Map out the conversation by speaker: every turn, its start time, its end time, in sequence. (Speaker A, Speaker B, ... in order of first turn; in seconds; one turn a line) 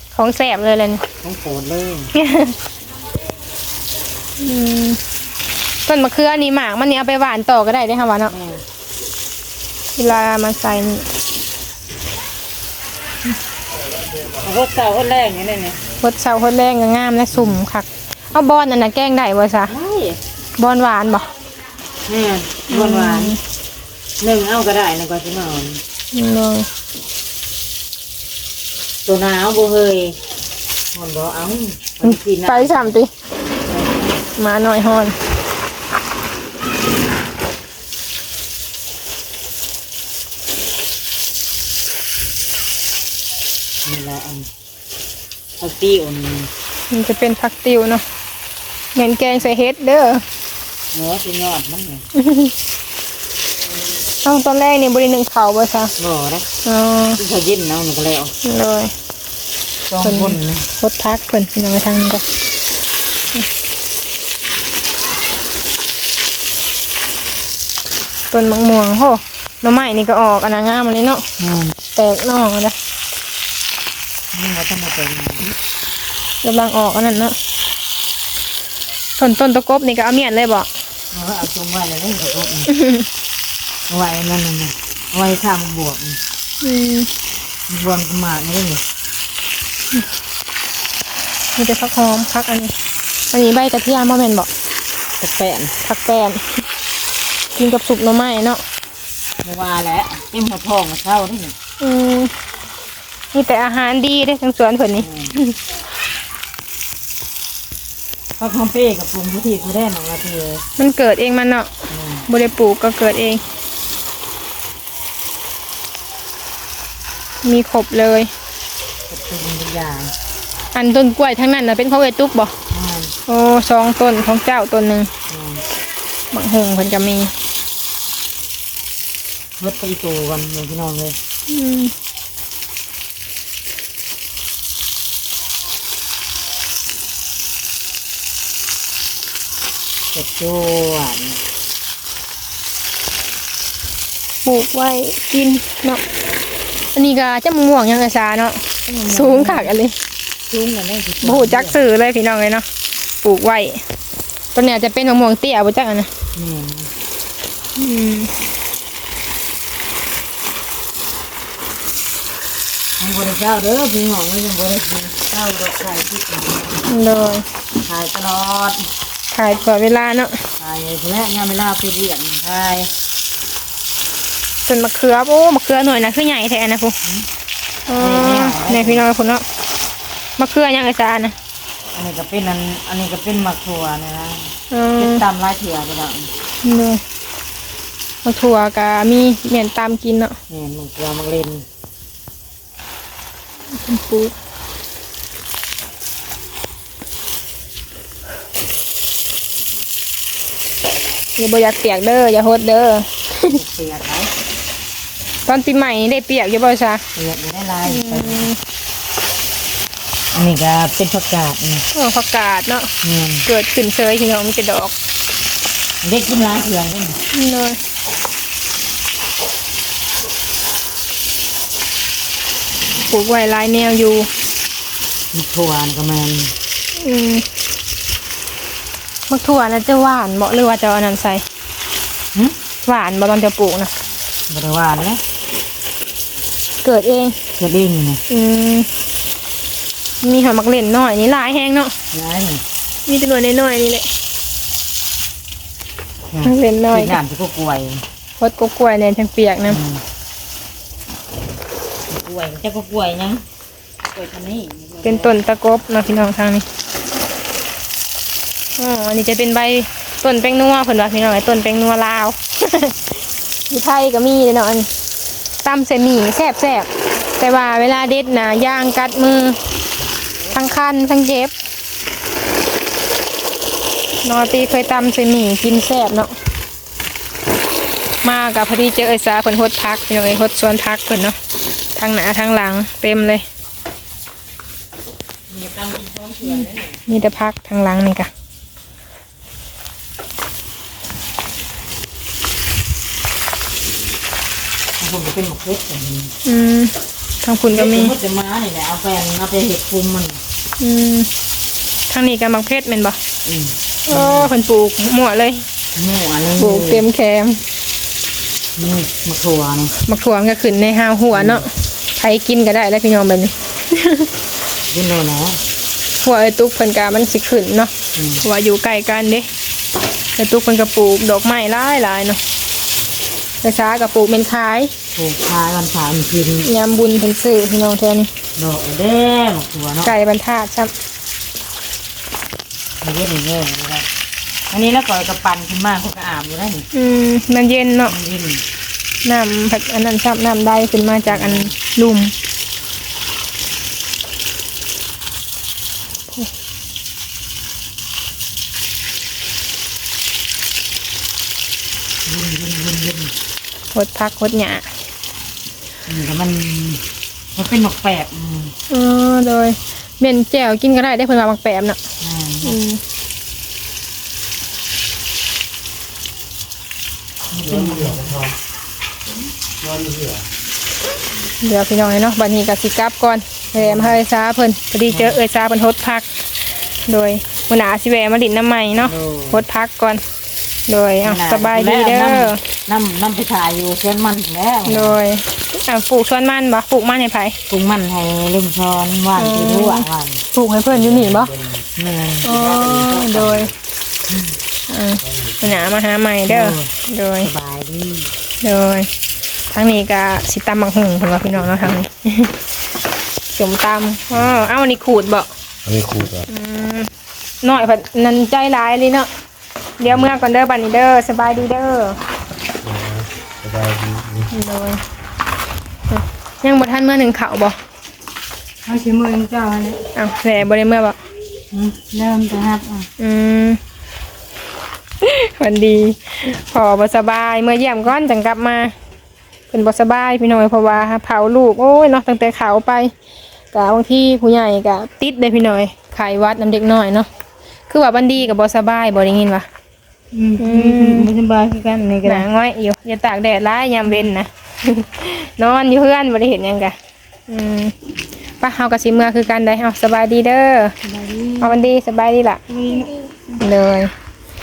Speaker A: 0.1-1.0
Speaker B: 1.2-2.1
Speaker A: 2.1-2.6
Speaker A: 4.4-5.0
Speaker A: 5.8-8.3
Speaker B: 8.3-8.6
Speaker A: 10.0-11.1
Speaker B: 14.3-15.8
Speaker A: 16.0-19.7
Speaker B: 17.3-17.6
Speaker B: 19.7-20.2
Speaker A: 20.6-21.3
Speaker B: 22.1-23.4
Speaker A: 22.7-23.4
Speaker B: 24.2-25.8
Speaker A: 26.1-26.7
Speaker B: 29.1-30.2
Speaker B: 30.9-33.0
Speaker A: 32.0-33.1
Speaker B: 33.7-34.2
Speaker A: 34.4-35.2
Speaker B: 43.9-44.5
Speaker B: 45.6-46.5
Speaker A: 46.9-48.0
Speaker A: 49.0-50.2
Speaker B: 50.9-52.0
Speaker A: 52.1-52.5
Speaker A: 54.2-55.9
Speaker B: 56.0-56.5
Speaker A: 56.6-57.2
Speaker B: 57.1-58.4
Speaker A: 58.4-58.9
Speaker B: 59.9-60.7
Speaker A: 60.0-62.2
Speaker A: 68.3-71.2
Speaker B: 71.4-71.7
Speaker A: 72.0-72.8
Speaker B: 74.3-75.5
Speaker A: 76.4-77.4
Speaker A: 79.2-80.7
Speaker B: 81.1-82.7
Speaker A: 82.7-83.1
Speaker B: 83.9-86.2
Speaker A: 86.6-87.1
Speaker B: 87.7-88.8
Speaker A: 91.6-92.7
Speaker A: 93.3-94.5
Speaker B: 95.2-95.8
Speaker A: 95.8-96.5
Speaker A: 97.5-98.6
Speaker B: 99.4-101.5
Speaker A: 101.8-102.3
Speaker A: 103.3-105.6
Speaker B: 105.0-105.3
Speaker B: 108.4-110.6
Speaker A: 110.8-111.7
Speaker B: 111.9-112.3
Speaker A: 112.3-113.4
Speaker A: 117.4-118.3
Speaker B: 119.1-120.1
Speaker A: 120.7-122.5
Speaker B: 122.7-123.1
Speaker A: 123.3-125.1
Speaker B: 125.3-125.6
Speaker A: 126.3-127.3
Speaker B: 129.6-131.2
Speaker A: 131.5-131.9
Speaker B: 140.1-141.4
Speaker A: 144.4-146.0
Speaker A: 146.9-150.0
Speaker B: 148.9-149.7
Speaker B: 150.5-151.8
Speaker A: 151.2-152.7
Speaker A: 153.2-153.8
Speaker A: 154.5-156.1
Speaker B: 156.3-156.9
Speaker A: 157.8-158.3
Speaker B: 163.0-166.8
Speaker A: 166.9-167.5
Speaker B: 167.8-168.9
Speaker A: 169.3-170.4
Speaker B: 170.6-172.9
Speaker A: 174.7-177.0
Speaker A: 177.9-179.4
Speaker B: 178.0-179.0
Speaker A: 180.4-181.3
Speaker B: 181.9-186.3
Speaker A: 184.7-185.2
Speaker A: 186.6-187.0
Speaker A: 188.2-190.4
Speaker B: 190.5-191.7
Speaker A: 193.8-194.3
Speaker A: 201.4-203.6
Speaker B: 203.5-204.3
Speaker A: 205.5-207.0
Speaker B: 207.2-208.5
Speaker A: 207.9-208.6
Speaker B: 210.3-211.8
Speaker A: 211.9-212.9
Speaker B: 213.0-213.4
Speaker A: 213.5-214.9
Speaker B: 216.0-217.2
Speaker A: 217.3-217.8
Speaker A: 223.1-224.3
Speaker B: 225.3-226.5
Speaker A: 227.0-227.5
Speaker A: 229.3-231.4
Speaker A: 232.8-233.9
Speaker B: 234.5-235.2
Speaker A: 236.8-237.4
Speaker B: 237.6-238.2
Speaker A: 238.3-238.9
Speaker A: 240.2-241.9
Speaker B: 242.1-242.6
Speaker A: 243.1-244.1
Speaker B: 246.3-248.0
Speaker A: 246.4-247.2
Speaker A: 248.4-249.8
Speaker B: 249.7-250.0
Speaker B: 252.1-253.4
Speaker B: 254.0-255.3
Speaker A: 255.0-256.7
Speaker A: 258.8-264.9
Speaker A: 265.6-269.6
Speaker A: 270.5-271.5
Speaker A: 274.2-276.4
Speaker A: 278.2-281.4
Speaker A: 282.0-283.4
Speaker B: 285.5-287.0
Speaker A: 287.1-288.3
Speaker B: 295.0-296.3
Speaker A: 296.4-298.1
Speaker B: 297.7-300.4
Speaker A: 300.8-301.3
Speaker A: 302.1-303.2
Speaker B: 303.4-304.5
Speaker A: 304.1-305.7
Speaker B: 305.9-307.1
Speaker A: 306.6-307.6
Speaker B: 308.8-310.0
Speaker A: 310.1-314.3
Speaker B: 311.3-311.7
Speaker B: 314.9-315.6
Speaker A: 316.2-319.5
Speaker B: 318.1-318.5
Speaker A: 320.4-322.4
Speaker A: 323.6-324.9
Speaker B: 325.1-326.7
Speaker A: 326.6-328.3
Speaker B: 328.6-330.1
Speaker A: 330.0-330.9
Speaker B: 333.0-334.1
Speaker B: 334.7-336.9
Speaker A: 336.9-338.1
Speaker B: 338.1-338.6
Speaker A: 339.2-342.3
Speaker B: 341.3-341.7
Speaker B: 352.2-353.3
Speaker A: 353.9-354.9
Speaker B: 356.1-357.0
Speaker B: 357.6-358.8
Speaker A: 358.9-362.0
Speaker B: 362.2-362.8
Speaker A: 362.6-363.0
Speaker B: 367.5-368.5
Speaker C: 369.9-370.3
Speaker A: 371.6-376.3
Speaker B: 373.8-374.2
Speaker B: 375.1-375.4
Speaker A: 377.1-380.2
Speaker B: 379.0-379.6
Speaker A: 380.9-382.6
Speaker B: 381.2-385.2
Speaker A: 384.9-387.6
Speaker B: 387.7-390.4
Speaker A: 389.4-391.5
Speaker B: 392.0-392.5
Speaker A: 392.4-393.7
Speaker B: 394.3-394.6
Speaker A: 394.9-397.5
Speaker B: 396.5-398.3
Speaker A: 398.6-399.1
Speaker A: 399.7-402.6
Speaker A: 403.6-405.5
Speaker C: 405.9-406.3
Speaker A: 406.4-407.1
Speaker A: 407.6-409.3
Speaker A: 410.0-412.2
Speaker C: 412.9-414.3
Speaker A: 414.5-415.0
Speaker A: 416.1-417.8
Speaker D: 418.9-420.0
Speaker A: 420.1-421.2
Speaker B: 421.7-422.1
Speaker D: 422.1-423.1
Speaker A: 423.2-423.8
Speaker A: 425.2-428.9
Speaker A: 429.7-433.1
Speaker A: 433.7-437.3
Speaker A: 437.9-439.7
Speaker B: 440.4-442.5
Speaker A: 440.6-441.3
Speaker A: 442.2-446.9
Speaker A: 447.5-447.9
Speaker A: 448.6-450.9
Speaker D: 451.1-451.7
Speaker A: 451.6-452.6
Speaker D: 452.9-453.2
Speaker A: 453.5-454.1